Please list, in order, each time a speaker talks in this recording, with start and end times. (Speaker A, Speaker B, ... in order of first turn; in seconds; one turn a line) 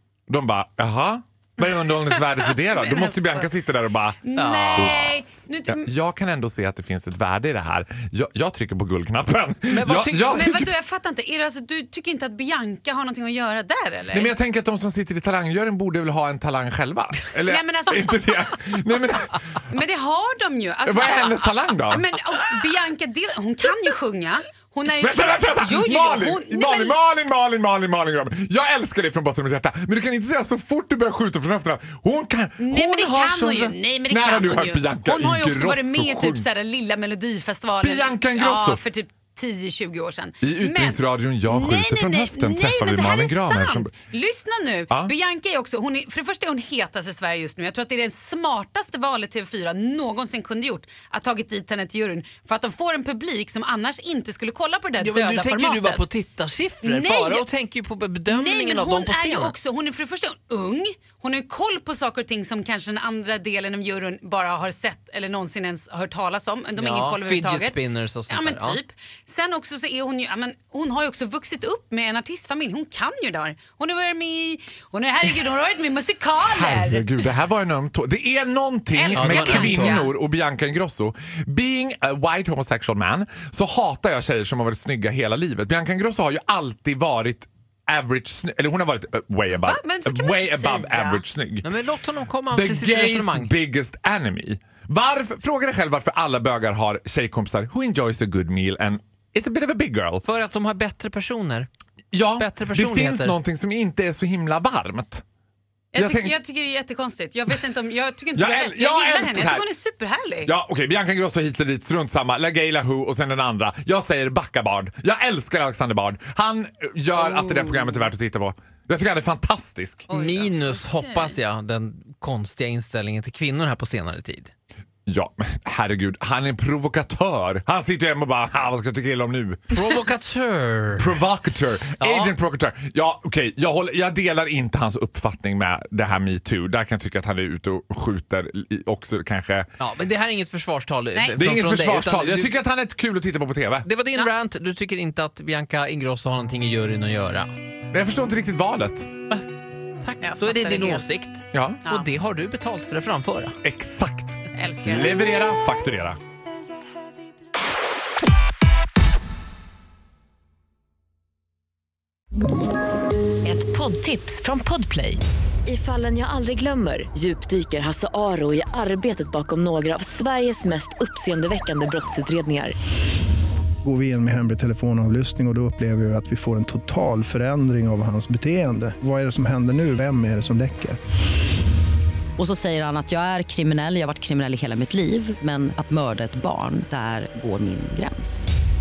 Speaker A: 0.3-4.2
Speaker B: 2.5-3.5
Speaker B: 4.2-5.9
Speaker C: 4.3-5.1
Speaker A: 4.7-10.7
Speaker C: 9.7-10.5
Speaker B: 10.3-14.3
Speaker A: 14.1-19.6
Speaker B: 17.4-18.4
Speaker B: 19.7-27.0
Speaker A: 20.9-22.1
Speaker A: 24.9-36.5
Speaker B: 32.6-56.0
Speaker A: 37.8-38.8
Speaker A: 40.4-43.9
Speaker C: 55.0-59.5
Speaker B: 56.8-57.5
Speaker B: 58.3-67.8
Speaker C: 66.8-68.8
Speaker B: 68.3-77.2
Speaker A: 76.4-91.7
Speaker B: 78.9-80.1
Speaker C: 79.1-80.0
Speaker B: 89.5-91.2
Speaker C: 91.6-93.5
Speaker A: 92.5-100.2
Speaker C: 100.2-101.7
Speaker A: 102.1-105.2
Speaker C: 102.4-103.4
Speaker B: 105.9-110.5
Speaker A: 106.0-106.3
Speaker A: 108.3-109.7
Speaker A: 110.4-120.1
Speaker B: 117.3-117.9
Speaker B: 120.1-121.4
Speaker C: 120.1-124.5
Speaker A: 125.0-129.8
Speaker C: 129.7-131.2
Speaker A: 131.0-139.7
Speaker C: 132.0-132.3
Speaker C: 139.8-142.6
Speaker A: 141.4-143.9
Speaker C: 143.8-147.5
Speaker A: 147.9-149.1
Speaker C: 150.0-153.6
Speaker B: 150.2-151.1
Speaker A: 151.5-151.8
Speaker A: 153.6-156.2
Speaker B: 154.5-155.1
Speaker D: 163.4-172.7
Speaker E: 173.8-181.0
Speaker F: 182.4-188.5